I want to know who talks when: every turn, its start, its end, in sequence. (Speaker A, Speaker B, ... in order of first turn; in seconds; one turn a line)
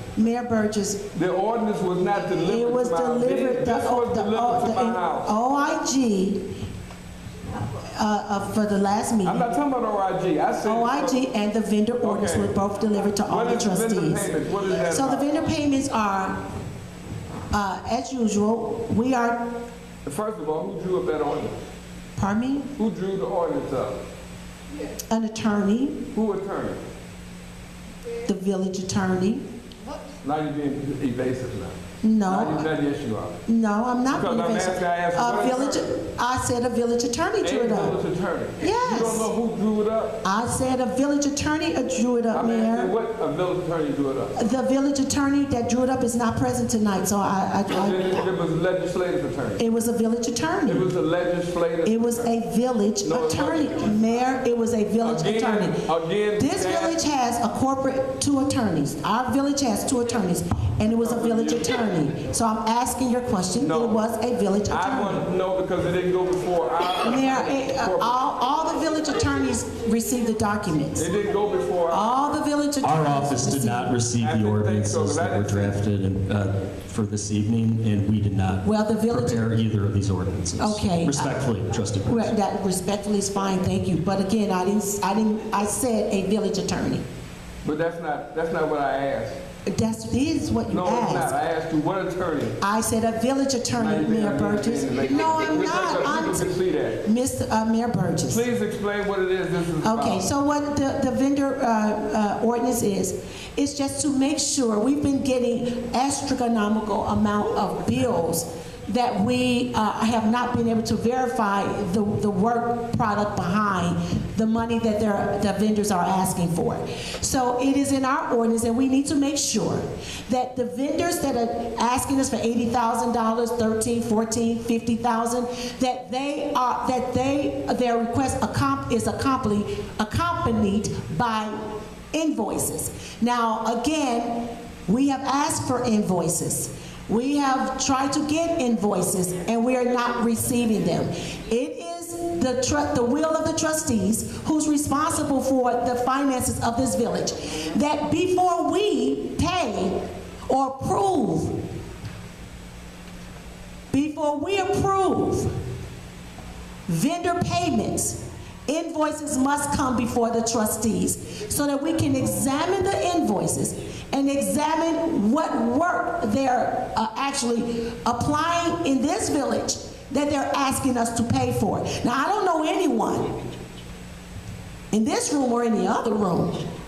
Speaker A: 0.1-1.0
Speaker B: 1.1-5.3
Speaker A: 2.2-6.5
Speaker A: 7.8-9.5
Speaker B: 9.2-11.2
Speaker A: 10.6-16.4
Speaker B: 12.0-12.5
Speaker B: 13.2-15.3
Speaker A: 17.5-19.5
Speaker B: 20.0-21.6
Speaker A: 22.1-22.7
Speaker B: 22.8-24.0
Speaker A: 25.1-26.0
Speaker B: 26.1-26.8
Speaker A: 28.2-29.4
Speaker B: 30.2-33.4
Speaker A: 32.0-32.7
Speaker A: 33.5-38.0
Speaker B: 34.1-36.0
Speaker B: 37.4-40.2
Speaker A: 38.6-39.3
Speaker A: 40.2-42.9
Speaker B: 42.3-44.3
Speaker A: 44.4-48.2
Speaker B: 47.7-49.6
Speaker A: 49.6-50.9
Speaker B: 50.6-52.3
Speaker A: 51.8-55.8
Speaker B: 53.0-54.0
Speaker B: 55.0-57.0
Speaker A: 56.4-65.2
Speaker B: 60.9-62.0
Speaker B: 63.6-64.0
Speaker B: 64.7-68.2
Speaker A: 67.0-71.1
Speaker B: 71.0-72.3
Speaker A: 71.9-74.0
Speaker C: 72.8-82.3
Speaker B: 74.2-75.8
Speaker A: 78.6-79.5
Speaker A: 80.6-81.4
Speaker A: 82.0-87.0
Speaker B: 87.6-89.4
Speaker A: 89.7-91.3
Speaker B: 90.7-92.6
Speaker A: 92.6-98.5
Speaker B: 93.7-97.0
Speaker B: 98.2-100.2
Speaker A: 99.8-131.6
Speaker A: 132.1-151.6
Speaker A: 153.9-155.5
Speaker A: 156.9-173.3
Speaker A: 174.9-176.6